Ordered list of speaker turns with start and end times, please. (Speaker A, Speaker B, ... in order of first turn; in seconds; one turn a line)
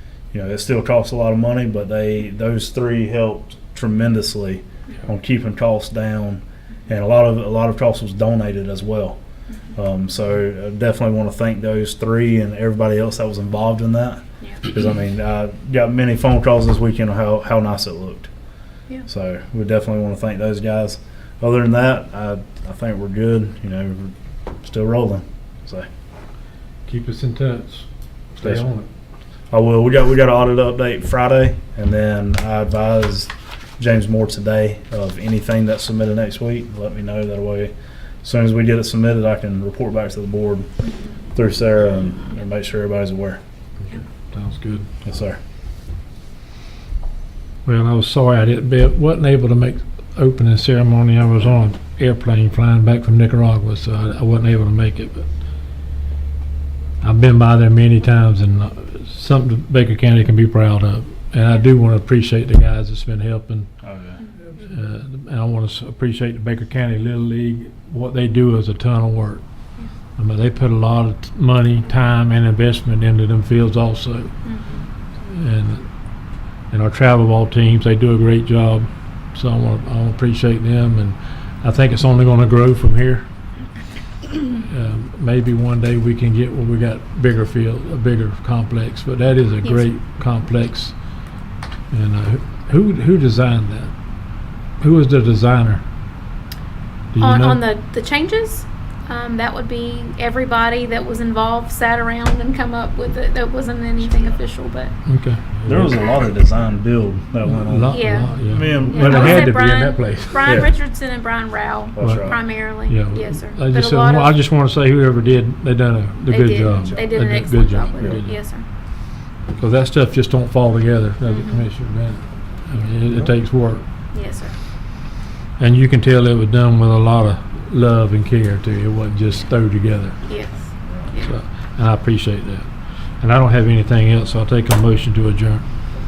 Speaker A: 0.3-9.2
Speaker A: 9.7-18.3
Speaker A: 19.1-25.9
Speaker B: 26.9-28.9
Speaker A: 29.5-40.7
Speaker C: 40.8-41.1
Speaker A: 41.3-43.4
Speaker B: 43.9-44.9
Speaker A: 45.0-45.4
Speaker B: 47.6-55.3
Speaker B: 57.0-63.7
Speaker A: 63.8-64.2
Speaker B: 64.5-69.4
Speaker B: 70.2-74.4
Speaker C: 74.4-74.9
Speaker B: 75.2-75.8
Speaker B: 76.7-83.2
Speaker B: 84.6-91.0
Speaker C: 89.6-89.9
Speaker B: 91.9-93.9
Speaker B: 94.8-95.8
Speaker B: 97.1-97.7
Speaker C: 97.2-104.9
Speaker B: 105.0-106.0
Speaker A: 105.6-109.6
Speaker C: 105.9-106.2
Speaker B: 107.4-110.5
Speaker C: 107.9-108.3
Speaker C: 108.9-114.4
Speaker A: 110.4-110.7
Speaker A: 111.9-112.4
Speaker B: 112.0-118.3
Speaker C: 116.3-118.7
Speaker B: 119.5-123.8
Speaker C: 121.2-121.7
Speaker C: 124.1-124.5
Speaker B: 125.6-130.2
Speaker C: 130.2-131.3
Speaker B: 131.2-135.6